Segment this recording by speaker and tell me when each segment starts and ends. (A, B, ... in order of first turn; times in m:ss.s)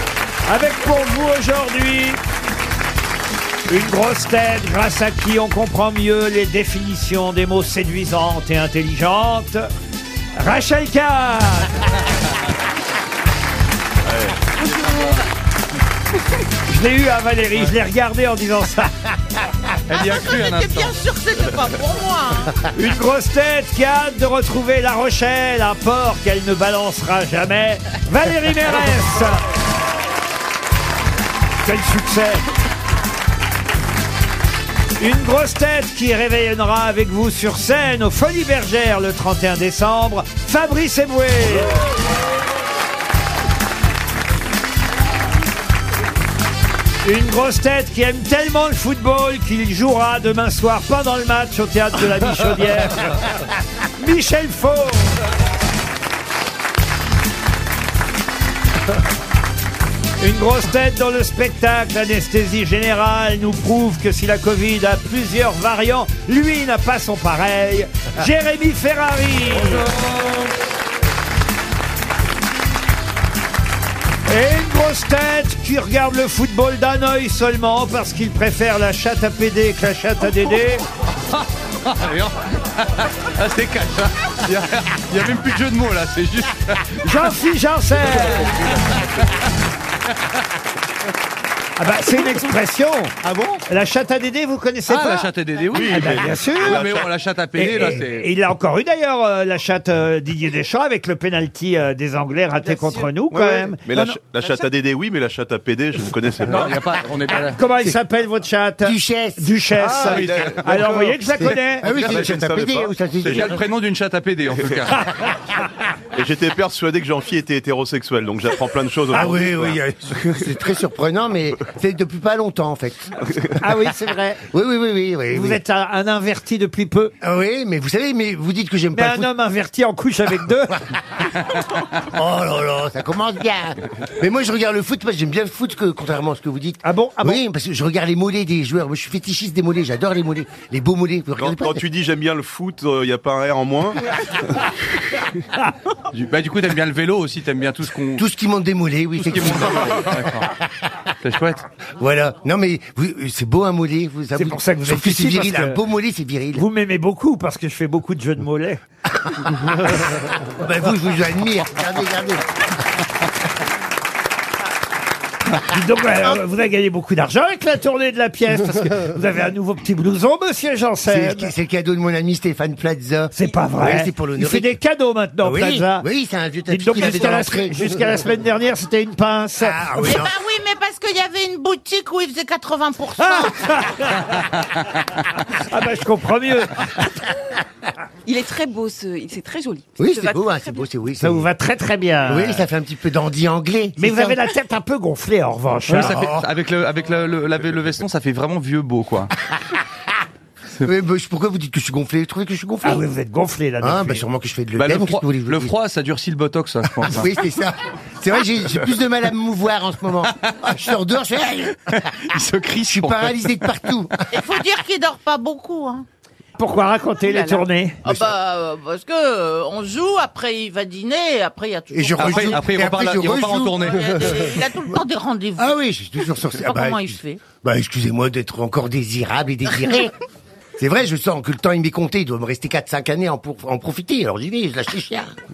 0:00.5-0:02.2 A
0:03.7-0:09.7 A
0:10.4-0:11.9 A
0:14.1-0:14.5 B
0:14.6-0:15.2 C
0:16.7-0:19.0 A
0:19.9-0:21.0 C
0:20.0-0:22.5 D
0:22.7-0:29.4 A
0:31.6-0:32.5 A
0:35.0-0:41.8 A
0:47.0-0:53.2 A
0:54.0-0:55.2 A
1:00.2-1:09.8 A
1:09.6-1:10.5 C
1:14.3-1:20.8 A
1:21.8-1:27.0 C
1:27.0-1:28.9 A
1:31.8-1:35.3 A
1:34.9-1:36.0 C
1:35.7-1:37.0 B
1:35.9-1:36.9 A
1:36.6-1:38.3 C
1:37.6-1:44.2 A
1:42.6-1:43.1 E
1:43.3-1:46.9 B
1:44.4-1:44.7 E
1:46.4-1:47.6 C
1:47.5-1:51.9 A
1:48.8-1:49.5 F
1:49.8-1:53.5 B
1:50.0-1:50.9 C
1:51.4-1:53.6 F
1:52.1-1:52.4 C
1:53.2-1:55.0 C
1:56.1-1:59.8 B
1:59.1-2:03.8 F
2:03.6-2:04.4 A
2:04.5-2:05.6 F
2:05.3-2:07.1 A
2:07.2-2:09.3 F
2:08.9-2:10.9 A
2:12.0-2:21.8 F
2:16.8-2:17.4 A
2:21.4-2:24.6 B
2:26.1-2:28.3 C
2:28.2-2:30.7 F
2:29.2-2:30.5 C
2:31.2-2:31.6 C
2:32.0-2:36.6 F
2:34.3-2:35.8 A
2:36.5-2:38.8 A
2:39.3-2:42.7 F
2:45.5-2:51.5 A
2:51.0-2:54.7 F
2:53.3-2:56.1 A
2:55.4-2:57.8 F
2:56.7-3:00.1 A
2:59.6-3:00.4 F
3:00.1-3:03.9 D
3:03.2-3:04.7 A
3:05.3-3:07.3 A
3:08.3-3:10.9 E
3:10.0-3:11.5 F
3:11.2-3:12.7 A
3:12.3-3:14.4 F
3:14.0-3:16.2 A
3:15.9-3:19.3 C
3:16.0-3:16.5 F
3:20.8-3:23.0 F
3:22.8-3:24.2 A
3:23.8-3:25.8 F
3:24.8-3:27.3 C
3:27.0-3:32.2 F
3:31.9-3:33.5 C
3:32.8-3:34.3 F
3:34.3-3:36.1 D
3:36.6-3:38.0 A
3:37.2-3:37.7 E
3:38.0-3:42.6 D
3:38.1-3:38.3 F
3:41.9-3:44.5 F
3:42.2-3:44.0 C
3:44.0-3:45.8 D
3:45.6-3:50.1 F
3:46.5-3:47.5 D
3:50.8-3:55.3 F